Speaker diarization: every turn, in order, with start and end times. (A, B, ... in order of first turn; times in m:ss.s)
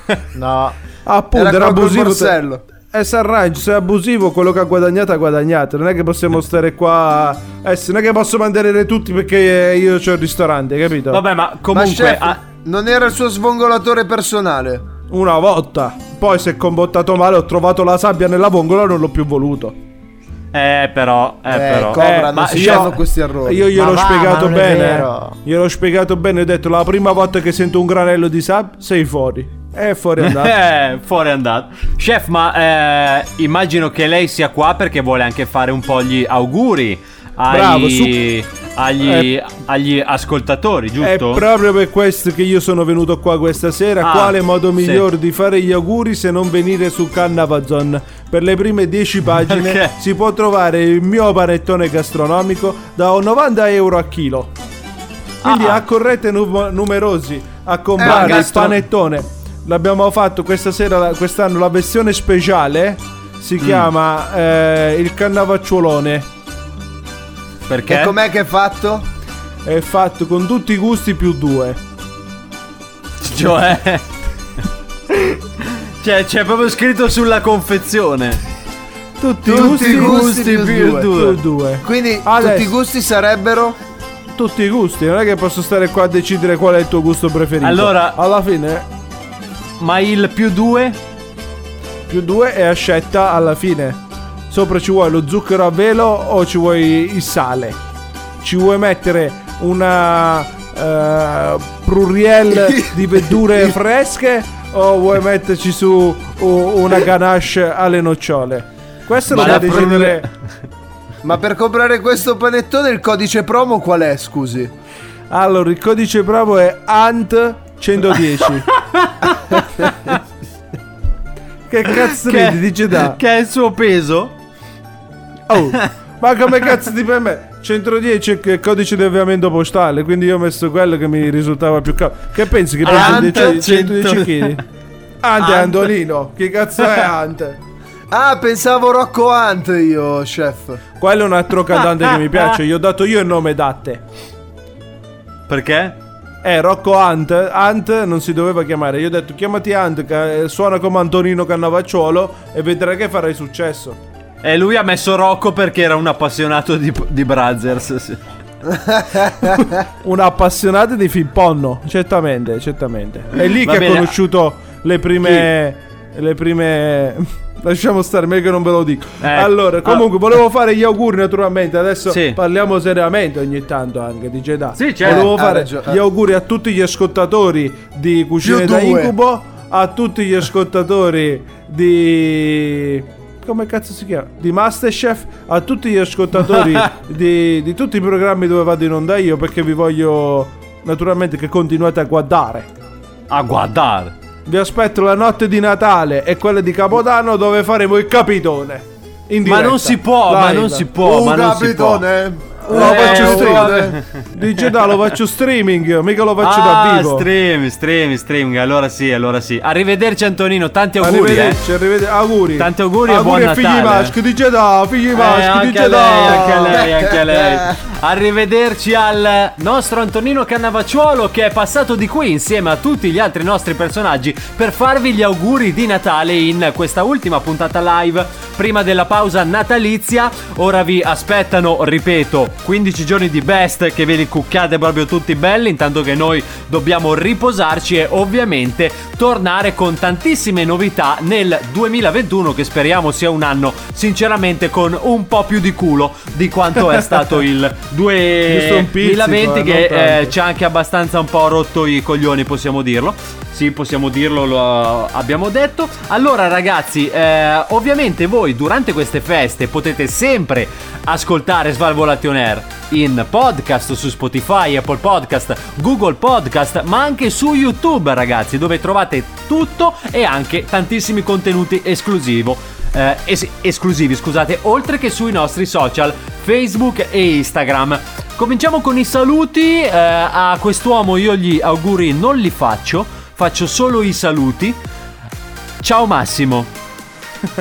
0:00.3-0:00.8 A
0:01.1-0:02.3 B
0:01.4-0:02.6 C
0:02.9-0:11.2 B
0:11.1-0:12.4 D
0:11.7-0:14.9 C
0:15.1-0:19.8 B
0:20.5-0:22.9 D
0:21.5-0:23.7 C
0:22.0-0:30.5 B
0:23.7-0:25.4 A
0:30.2-0:41.4 D
0:37.5-0:38.2 B
0:39.0-0:39.3 B
0:41.0-0:54.5 B
0:44.0-0:45.0 D
0:49.5-0:49.9 D
0:55.4-0:55.8 D
0:55.4-1:06.3 B
0:58.0-0:58.5 C
0:58.0-0:58.8 D
1:03.6-1:03.9 D
1:07.7-1:08.1 D
1:07.9-1:09.0 C
1:09.6-1:11.8 B
1:13.2-1:14.0 D
1:16.0-1:18.4 D
1:19.2-1:21.4 D
1:19.4-1:22.7 B
1:19.5-1:21.1 C
1:21.8-1:23.8 C
1:24.3-1:28.8 B
1:27.6-1:28.2 D
1:29.8-1:31.0 D
1:32.1-1:37.8 B
1:38.4-1:50.3 B
1:42.6-1:42.9 C
1:49.3-1:50.3 D
1:51.2-1:54.7 C
1:55.3-1:58.7 B
1:58.7-2:00.1 D
2:01.7-2:03.2 B
2:01.9-2:04.4 D
2:05.5-2:14.6 B
2:12.8-2:14.6 D
2:12.9-2:13.6 C
2:15.2-2:17.6 B
2:15.4-2:15.9 D
2:18.1-2:20.8 C
2:21.0-2:24.0 B
2:21.8-2:22.5 D
2:25.5-2:26.0 D
2:26.4-2:34.0 B
2:34.4-2:38.2 D
2:38.7-2:39.6 C
2:40.0-3:12.7 B
2:43.4-2:44.2 D
2:49.2-2:50.1 D
2:52.1-2:52.4 D
2:54.8-2:55.3 D
2:55.0-2:56.0 C
2:58.4-2:59.1 C
3:06.4-3:06.9 D
3:13.3-3:14.1 D
3:14.5-3:20.9 B
3:19.4-3:22.0 D
3:21.0-3:24.0 C
3:22.6-3:27.3 B
3:22.7-3:24.7 D
3:26.4-3:31.6 D
3:31.0-3:36.8 B
3:32.6-3:34.1 D
3:35.1-4:44.8 D
3:36.5-3:37.8 C
4:08.5-4:10.3 B
4:45.8-4:46.7 D